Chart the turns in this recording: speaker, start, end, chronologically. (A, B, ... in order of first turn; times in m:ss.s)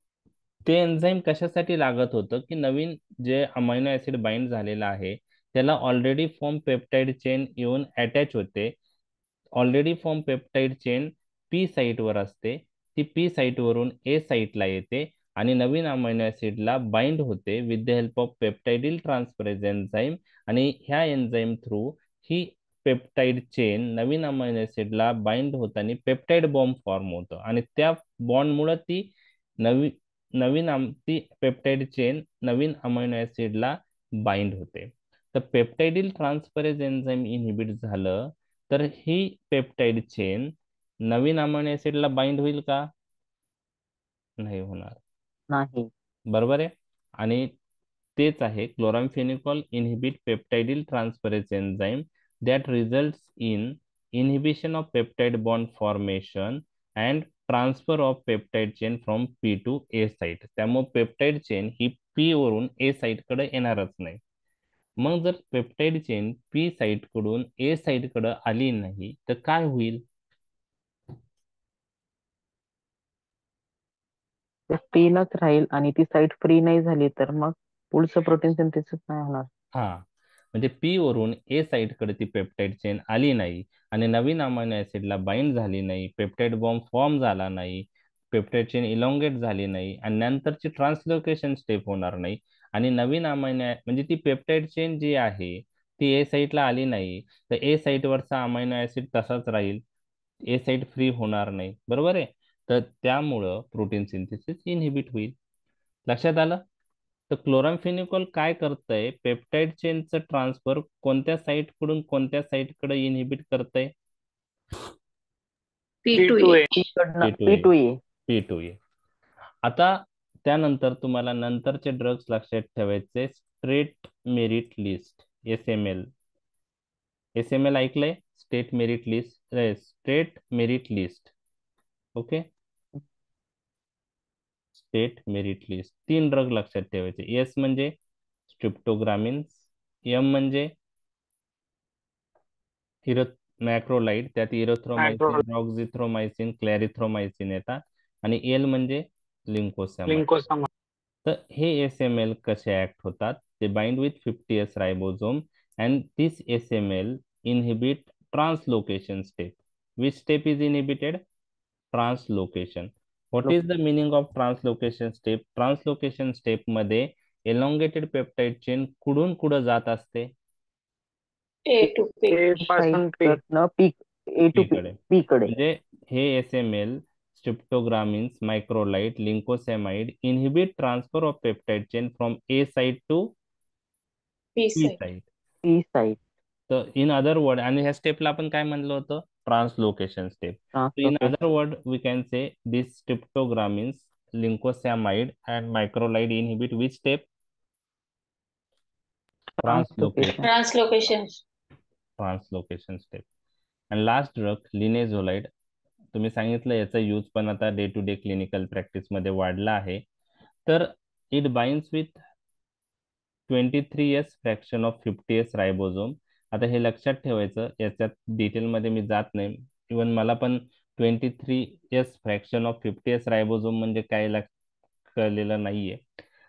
0:00.6-0:08.7 A
0:09.6-0:29.1 A
0:29.6-0:40.5 A
0:41.0-0:42.8 A
0:44.4-0:45.0 A
0:45.5-0:45.9 B
0:46.3-0:47.5 A
0:48.2-1:04.2 A
1:05.0-1:10.0 A
1:14.7-1:19.5 B
1:19.7-1:39.8 A
1:40.4-1:45.3 A
1:46.0-1:46.6 A
1:47.3-1:53.9 A
1:56.0-1:56.6 C
1:56.1-1:56.7 D
1:56.7-1:58.0 B
1:57.2-1:57.7 A
1:58.3-1:58.8 A
1:59.6-2:06.1 A
2:07.4-2:11.3 A
2:12.2-2:12.4 A
2:14.7-2:17.9 A
2:18.5-2:19.6 A
2:20.1-2:20.7 A
2:23.0-2:30.3 A
2:25.0-2:25.4 D
2:30.1-2:30.7 D
2:31.2-2:41.2 A
2:41.9-2:50.3 A
2:51.6-2:52.5 C
2:52.3-2:53.4 D
2:52.6-2:55.5 B
2:54.5-3:03.3 A
3:04.6-3:05.0 C
3:04.8-3:05.2 A
3:05.6-3:06.2 B
3:06.7-3:17.2 A
3:10.7-3:11.4 B
3:19.6-3:20.5 B
3:19.6-3:20.4 A
3:20.4-3:21.4 C
3:22.2-3:23.2 A
3:23.9-3:25.5 A
3:26.1-3:30.0 A
3:30.6-3:32.2 A
3:33.5-3:44.5 A
3:45.1-3:46.0 A